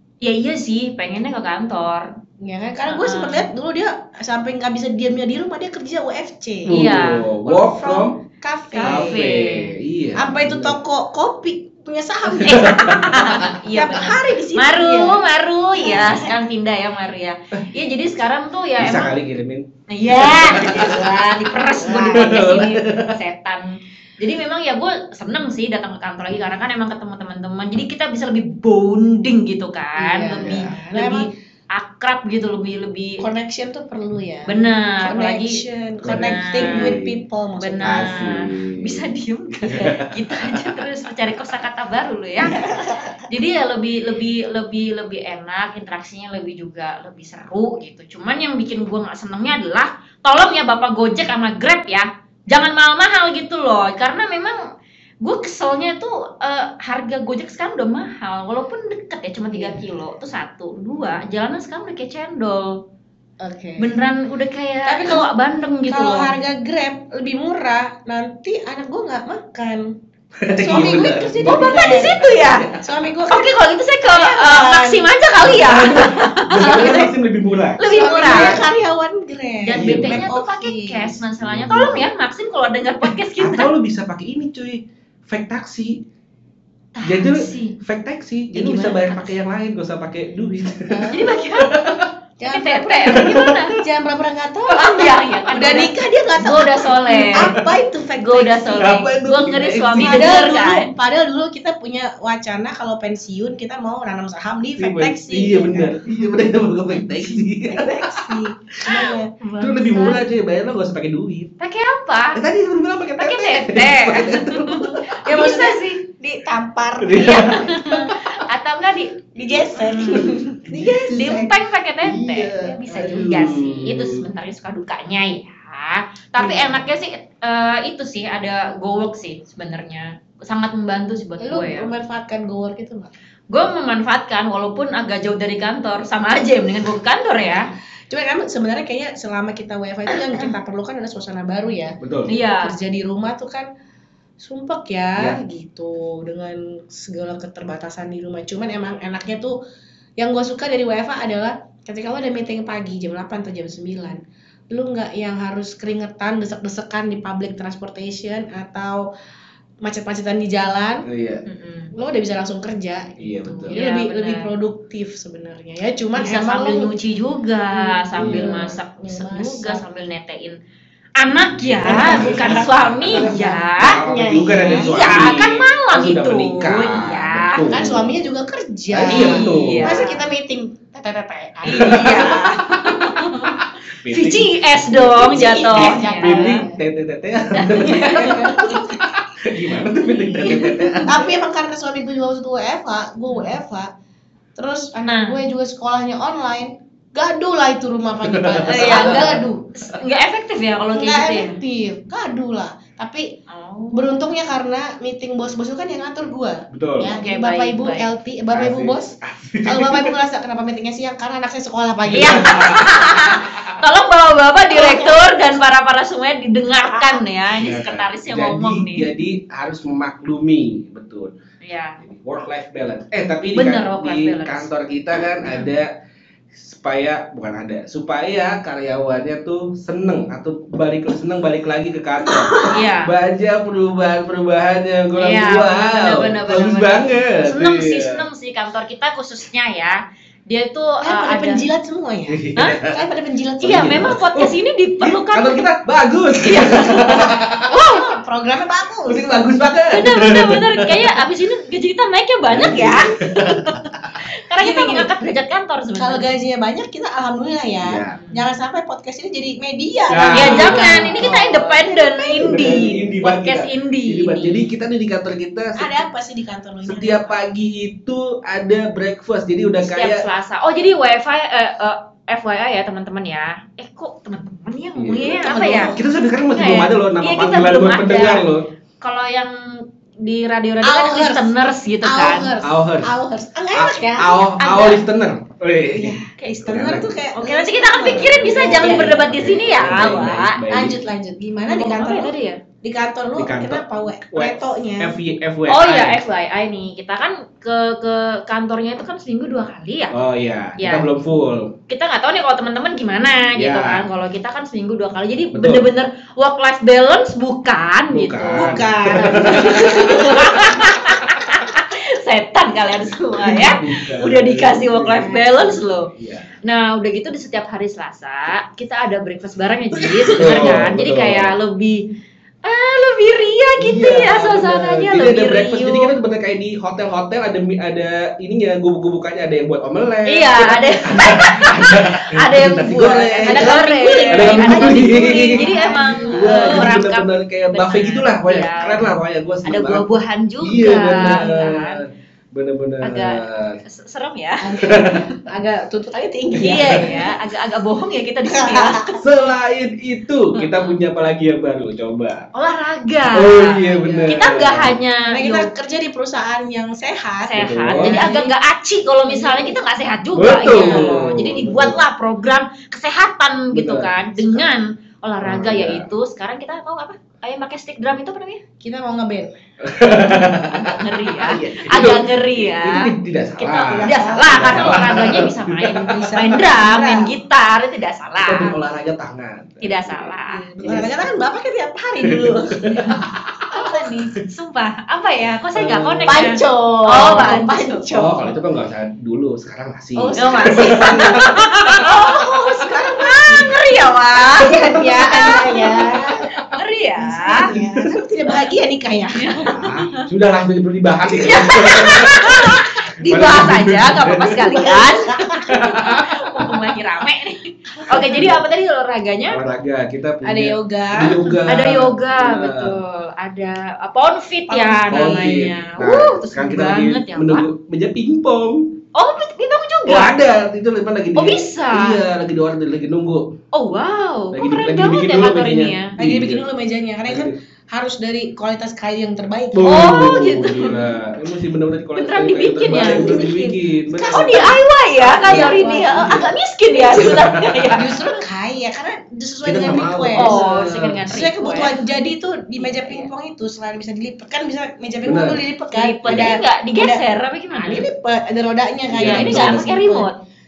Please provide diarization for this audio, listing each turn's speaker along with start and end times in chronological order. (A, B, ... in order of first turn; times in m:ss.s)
0:00.2-0:02.1 A
0:02.4-0:06.8 B
0:02.9-0:03.5 A
0:06.7-0:08.2 C
0:06.7-0:07.4 A
0:07.5-0:09.2 B
0:08.7-0:09.7 A
0:08.8-0:10.8 C
0:10.2-0:15.2 B
0:12.4-0:13.5 C
0:12.4-0:19.2 A
0:15.8-0:16.3 B
0:18.8-0:21.2 C
0:19.9-0:33.2 A
0:21.8-0:22.5 B
0:22.0-0:23.1 C
0:30.0-0:31.3 B
0:30.4-0:30.7 C
0:33.2-0:38.4 B
0:34.5-0:37.0 A
0:36.0-0:37.2 C
0:37.6-0:54.6 A
0:37.8-0:39.1 C
0:39.6-0:40.8 C
0:42.4-0:43.2 B
0:55.2-1:02.8 A
0:59.5-0:59.9 B
1:03.4-1:03.9 B
1:03.8-1:06.3 A
1:04.9-1:05.3 B
1:05.9-1:09.9 B
1:10.4-1:12.9 C
1:10.6-1:12.2 B
1:11.4-1:12.7 A
1:12.8-1:15.1 B
1:13.3-1:17.1 A
1:15.4-1:18.7 C
1:16.6-1:17.1 B
1:17.8-1:18.6 A
1:17.9-1:21.2 B
1:19.6-1:23.7 A
1:19.7-1:20.3 C
1:21.4-1:22.1 C
1:23.4-1:26.0 C
1:27.0-1:27.8 A
1:27.0-1:32.1 C
1:28.5-1:29.4 A
1:30.9-1:31.5 B
1:31.1-1:33.8 A
1:32.4-1:39.0 B
1:33.1-1:33.6 C
1:34.7-1:37.6 A
1:37.4-1:37.7 C
1:38.2-1:40.9 A
1:38.8-1:40.4 C
1:40.0-1:46.0 B
1:44.8-1:51.5 C
1:47.7-1:49.4 B
1:48.9-1:50.2 A
1:51.6-1:52.4 A
1:52.3-1:55.4 C
1:53.2-1:56.0 A
1:55.0-1:57.8 B
1:57.0-1:58.4 C
1:57.2-2:11.9 A
1:59.4-2:01.5 B
2:00.2-2:04.3 C
2:06.4-2:06.8 B
2:11.4-2:13.1 B
2:13.5-2:17.7 A
2:18.1-2:23.7 B
2:22.0-2:22.3 C
2:22.3-2:22.8 A
2:24.4-2:29.6 B
2:30.2-2:39.1 B
2:39.8-2:41.1 B
2:41.0-2:41.4 C
2:41.5-2:41.9 A
2:41.9-2:46.9 B
2:43.2-2:43.8 C
2:43.6-2:44.5 A
2:46.2-2:50.6 A
2:47.7-2:49.8 B
2:48.2-2:48.6 C
2:51.2-2:54.0 A
2:51.5-2:58.2 C
2:51.8-2:55.0 B
2:54.6-2:57.7 A
2:57.7-3:02.6 B
2:58.9-3:00.1 C
2:59.1-3:00.2 A
3:01.7-3:06.6 A
3:01.7-3:03.0 C
3:03.9-3:11.3 C
3:05.2-3:06.8 B
3:07.5-3:09.0 A
3:07.8-3:08.9 B
3:10.0-3:11.1 A
3:11.1-3:13.9 B
3:14.6-3:19.5 B
3:15.0-3:15.4 A
3:18.2-3:19.4 C
3:18.6-3:21.6 A
3:20.9-3:23.3 B
3:23.5-3:24.1 A
3:23.9-3:32.9 B
3:26.7-3:27.2 C
3:27.1-3:28.1 A
3:28.5-3:30.2 C
3:32.1-3:33.8 C
3:32.1-3:39.1 A
3:34.7-3:35.4 B
3:36.8-3:37.2 B
3:37.6-3:41.3 C
3:41.6-3:42.0 A
3:42.0-3:45.9 C
3:43.5-3:44.7 A
3:46.6-3:58.3 C
3:52.7-3:53.1 A
3:55.2-4:01.6 A
4:01.0-4:04.1 B
4:02.3-4:03.0 C
4:03.6-4:07.7 C
4:03.6-4:05.6 A
4:06.4-4:08.1 A
4:07.7-4:09.4 B
4:09.1-4:11.2 C
4:09.9-4:16.3 A
4:12.5-4:14.0 C
4:14.6-4:15.1 B
4:16.0-4:23.0 B
4:17.8-4:18.2 C
4:18.1-4:18.4 A
4:20.1-4:21.4 C
4:20.3-4:24.7 A
4:22.4-4:26.0 C
4:25.8-4:27.4 B
4:26.8-4:30.2 C
4:29.8-4:36.0 A
4:35.0-4:38.7 C
4:35.2-4:36.0 B
4:36.5-4:38.5 A
4:39.0-4:42.5 A
4:40.8-4:44.6 B
4:42.6-4:43.1 C
4:43.7-4:47.1 C
4:44.6-4:45.0 A
4:45.9-4:49.2 B
4:47.4-4:50.6 A
4:48.4-4:51.0 C
4:50.7-4:55.2 B
4:51.7-4:52.6 A
4:53.4-4:56.2 C
4:55.7-5:00.2 A
5:00.1-5:01.8 C
5:00.8-5:01.1 A
5:01.9-5:16.1 A
5:03.6-5:04.1 C
5:05.5-5:05.9 C
5:08.1-5:11.3 C
5:08.5-5:10.6 B
5:13.1-5:15.4 C
5:15.2-5:15.7 B
5:16.1-5:16.5 C
5:16.6-5:22.0 A
5:20.3-5:21.5 C
5:22.6-5:26.1 A
5:23.8-5:40.0 C
5:30.3-5:39.1 A
5:33.4-5:36.9 B
5:39.6-5:42.0 A
5:40.6-5:43.8 C
5:41.2-5:41.4 B
5:43.0-5:45.1 A
5:44.6-5:47.3 B
5:44.8-5:45.2 C
5:46.6-5:49.2 A
5:46.7-5:47.0 C
5:48.5-5:49.2 B
5:49.2-5:52.5 C
5:50.6-5:50.9 A
5:52.5-5:55.7 A
5:53.3-5:55.0 C
5:54.0-5:54.4 B
5:55.3-5:58.5 B
5:57.5-6:08.6 A
5:57.6-5:58.2 C
5:59.2-5:59.8 B
6:00.4-6:02.0 C
6:00.7-6:01.1 B
6:03.7-6:04.7 C
6:05.4-6:06.1 C
6:08.8-6:09.6 B
6:09.8-6:16.5 C
6:10.8-6:18.8 A
6:13.8-6:15.3 B
6:15.9-6:17.3 B
6:18.4-6:21.2 C
6:19.8-6:20.6 A
6:20.5-6:23.0 B
6:22.2-6:23.9 C
6:23.0-6:28.0 A
6:25.7-6:26.5 C
6:26.3-6:28.6 B
6:27.1-6:27.6 C
6:28.1-6:31.6 C
6:30.2-6:33.8 B
6:30.4-6:37.7 A
6:34.4-6:36.5 B
6:34.6-6:36.0 C
6:37.2-6:39.8 B
6:37.6-6:38.1 C
6:39.4-6:40.2 A
6:39.7-6:44.7 C
6:41.4-6:42.6 B
6:41.4-6:49.6 A
6:44.7-6:45.8 B
6:45.7-6:46.8 C
6:48.0-6:48.3 B
6:48.1-6:48.6 C
6:49.5-6:53.0 C
6:50.4-6:51.6 B
6:51.7-6:57.6 A
6:54.7-6:55.3 B
6:55.1-6:59.0 C
6:59.1-7:00.3 A
7:00.1-7:03.6 C
7:01.4-7:02.2 A
7:03.7-7:06.2 A
7:04.5-7:06.6 C
7:06.2-7:10.1 B
7:07.3-7:07.6 C
7:09.7-7:14.7 C
7:09.8-7:11.0 A
7:12.2-7:13.4 A
7:12.9-7:17.3 B
7:14.3-7:18.1 A
7:15.4-7:16.5 C
7:17.1-7:18.1 C
7:17.9-7:20.6 B
7:19.6-7:21.2 C
7:20.4-7:22.0 A
7:21.3-7:30.3 B
7:22.8-7:23.3 A
7:25.2-7:25.6 C
7:25.9-7:28.1 A
7:26.3-7:26.5 C
7:29.1-7:29.9 C
7:29.2-7:30.4 A